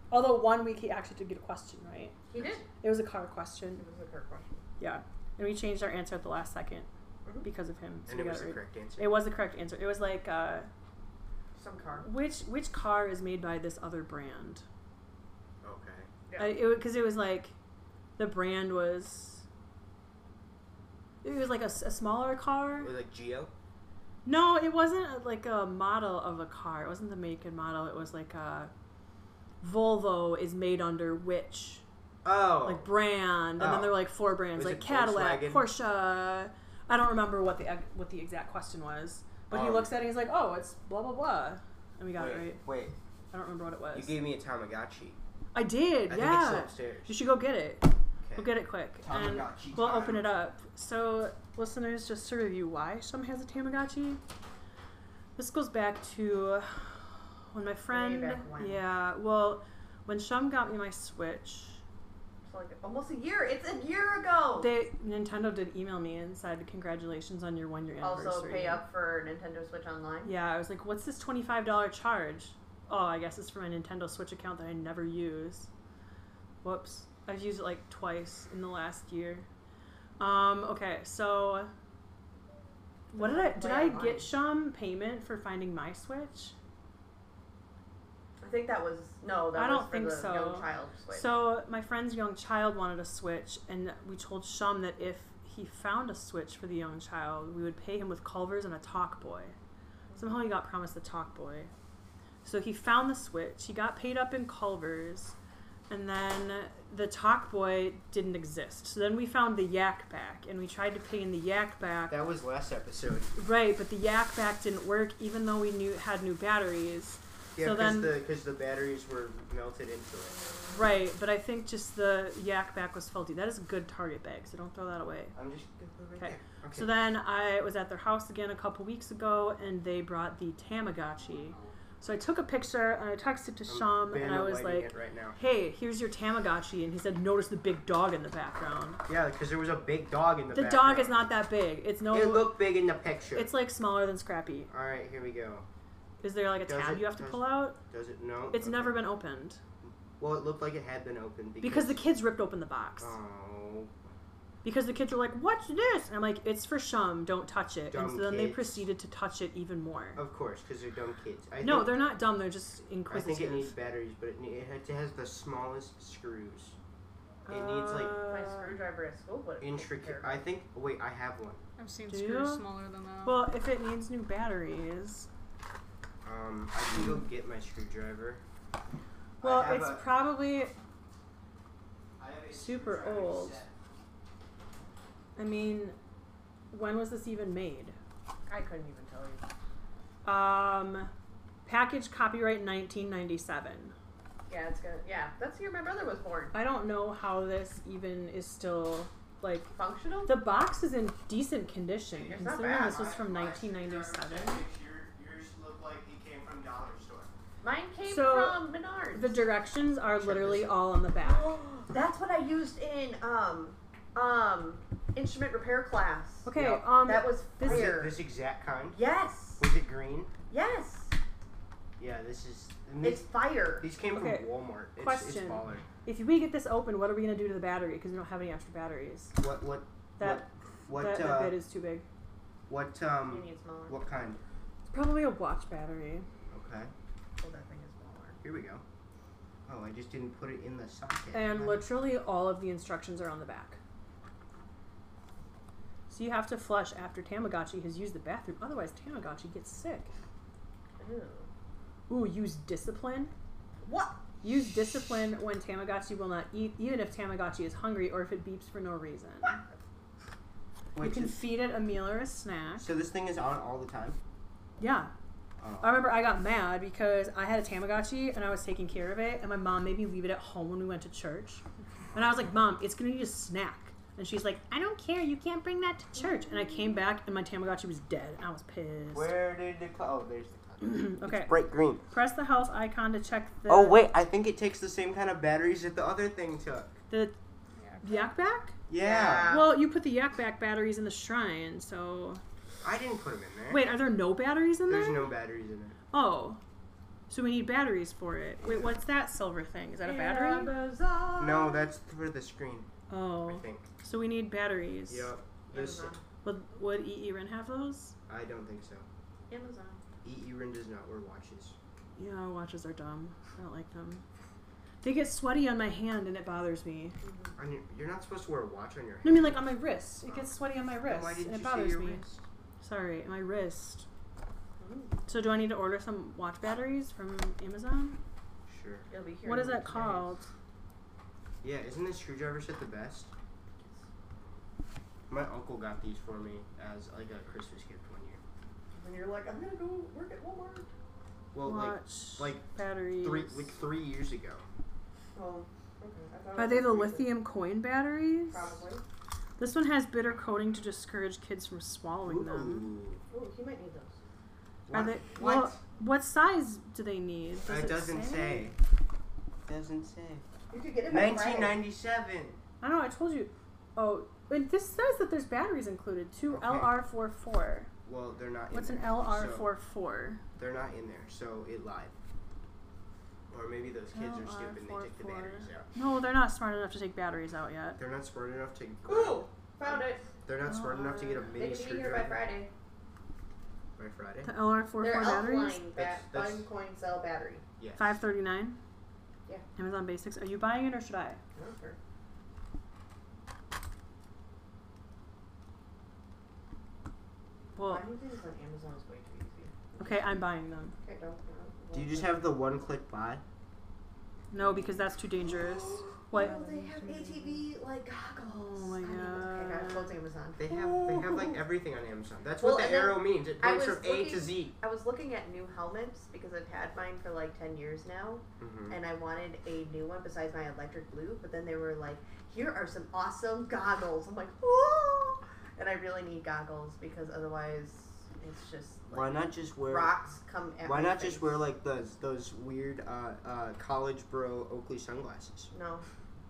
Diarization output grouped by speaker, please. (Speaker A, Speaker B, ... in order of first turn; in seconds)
Speaker A: 0.1-2.2, 2.8-3.8, 4.8-6.9, 7.4-10.7, 12.0-14.6, 16.4-17.5, 18.2-19.4, 21.2-22.9, 24.2-28.7, 29.6-31.8, 32.6-42.6, 43.3-44.2, 45.5-54.2, 55.4-61.8, 64.6-68.8, 70.2-75.7, 76.6-79.5, 80.2-81.7, 83.1-86.5, 89.5-99.5, 100.2-101.7, 102.4-105.3, 105.9-112.2, 113.3-118.2, 120.7-125.3, 126.2-139.0, 140.5-142.6, 143.3-144.7, 146.2-147.8, 148.5-149.6, 151.6-153.2, 154.6-160.2, 161.6-163.7, 167.4-168.8, 172.1-172.6, 173.2-175.3, 179.4-180.7, 182.5-183.6, 185.3-185.9, 186.7-187.9, 190.2-191.1, 191.7-193.9, 196.5-199.7, 200.2-204.7, 208.0-211.6, 216.4-218.0, 224.1-229.3, 230.2-232.1, 234.9-236.2, 241.3-243.8, 246.1-250.1, 252.1-253.3, 254.4-259.6, 261.0-262.9, 264.8-265.1, 265.8-271.6, 272.1-279.3, 280.8-284.0, 287.1-287.3, 288.0-288.8, 289.4-292.4, 293.7-295.3, 296.1-296.6, 297.3-300.7, 303.1-305.3, 306.4-308.1, 312.2-314.2, 315.0-317.2, 319.2-322.2, 322.8-324.1, 325.3-328.2, 329.4-330.4, 341.6-343.7, 346.6-348.6, 349.6-352.9, 354.9-358.7, 362.8-367.9, 368.7-370.4, 374.1-378.0, 380.7-381.4, 384.4-385.8, 387.9-388.8, 389.8-391.4, 397.8-398.1, 400.0-400.9, 404.5-407.6, 408.4-410.1
Speaker B: 2.3-2.6, 3.8-4.6, 11.6-12.1, 16.3-16.6, 57.9-58.8, 62.5-64.7, 68.0-70.3, 83.1-84.3, 88.4-91.3, 100.1-100.4, 168.2-170.4, 188.5-189.4, 194.5-196.6, 199.7-200.3, 202.3-203.0, 207.6-209.4, 211.5-216.5, 217.0-218.2, 218.9-219.7, 220.5-221.2, 223.0-223.8, 233.3-233.9, 237.4-238.4, 251.0-251.5, 253.8-254.2, 289.0-289.8, 300.0-301.9, 305.7-306.2, 309.5-310.0, 317.2-317.6, 324.8-325.2, 329.1-330.3, 338.9-340.9, 345.3-347.3, 348.5-349.0, 353.3-354.2, 360.7-361.8, 379.1-380.3, 381.4-382.7, 385.0-387.6, 391.6-392.0, 397.8-400.4, 401.0-402.5, 405.7-411.6, 412.6-431.6, 435.7-436.1
Speaker C: 8.1-9.1, 15.6-16.1, 22.8-23.5, 32.2-32.9, 33.6-34.0, 34.5-35.7, 39.5-39.9, 42.1-42.9, 43.9-45.2, 46.1-47.2, 48.2-50.2, 112.1-113.3, 117.5-120.4, 125.3-127.0, 133.7-135.4, 139.1-141.3, 142.1-143.5, 144.7-145.7, 146.6-149.0, 149.8-152.0, 153.0-153.9, 157.9-158.9, 160.2-162.0, 163.1-166.8, 167.5-168.2, 169.6-171.6, 176.2-178.4, 179.4-180.1, 182.2-183.7, 202.1-207.3, 210.2-210.8, 216.5-216.8, 217.6-219.0, 219.6-220.3, 222.0-223.2, 223.8-225.9, 229.4-231.6, 232.7-234.4, 236.5-236.9, 238.4-238.8, 239.7-241.8, 260.9-261.4, 262.8-264.2, 265.6-266.0, 279.1-282.0, 283.7-286.9, 288.9-289.6, 292.8-293.9, 294.9-295.9, 301.4-302.9, 303.4-303.9, 305.1-306.1, 308.3-309.1, 310.2-311.8, 317.6-319.6, 321.1-322.4, 328.7-329.1, 331.6-333.3, 335.3-338.4, 341.5-342.7, 343.2-344.7, 352.2-353.2, 354.9-355.8, 357.7-358.8, 359.7-360.4, 361.1-362.6, 366.5-366.9, 368.1-369.7, 370.6-372.1, 373.5-375.9, 378.0-382.4, 384.0-384.5, 385.9-386.7, 387.8-388.2, 401.9-403.4, 410.6-414.7, 418.6-419.0, 429.1-430.1, 430.8-435.7
Speaker D: 171.8-173.4, 287.8-288.2